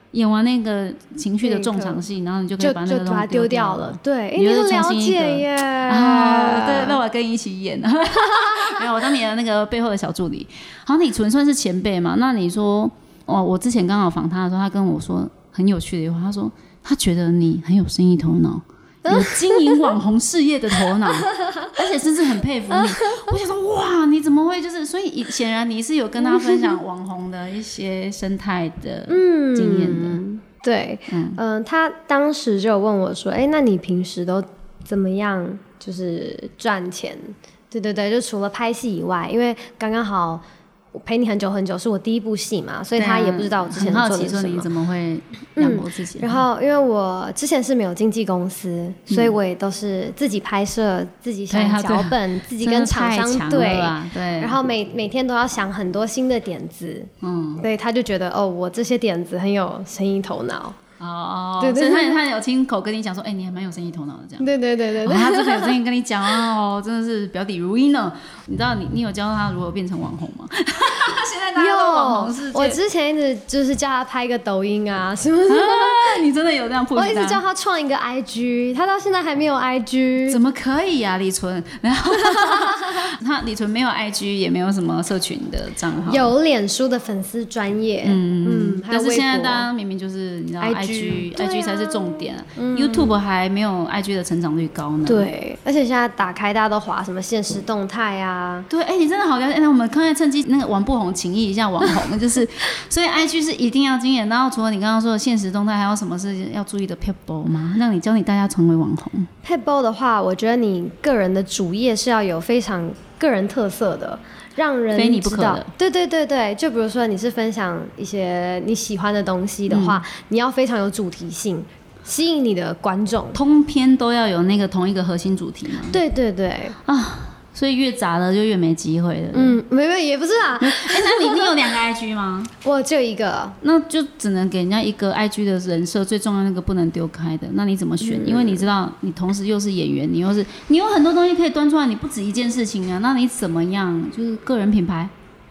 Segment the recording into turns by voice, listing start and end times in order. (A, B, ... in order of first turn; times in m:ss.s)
0:00.1-0:30.2 A
0:01.4-0:02.0 B
0:02.6-0:07.0 B
0:08.3-0:08.9 B
0:19.0-0:19.9 B
0:21.2-0:21.7 B
0:22.7-0:23.4 B
0:26.2-0:26.8 B
0:29.1-0:44.7 B
0:31.1-0:31.4 A
0:43.0-0:46.4 A
0:45.6-1:00.8 B
0:49.1-0:49.4 A
0:51.5-0:54.6 A
0:57.2-0:57.6 A
1:01.0-1:04.5 A
1:01.6-1:02.2 B
1:04.4-1:05.8 B
1:05.0-1:12.8 A
1:11.6-1:16.2 B
1:15.5-1:17.4 A
1:17.0-1:20.4 B
1:20.3-1:26.3 A
1:22.2-1:23.0 B
1:26.1-1:29.7 B
1:28.0-1:35.3 A
1:30.6-1:33.2 B
1:35.1-1:38.7 B
1:38.7-1:49.3 A
1:49.4-2:03.4 B
1:55.0-1:55.7 A
1:59.7-2:00.0 A
2:03.3-2:06.0 A
2:05.9-2:06.8 B
2:06.8-2:09.6 A
2:09.3-2:11.5 B
2:10.6-2:12.5 A
2:12.6-2:13.6 B
2:13.6-2:25.1 A
2:18.0-2:18.7 B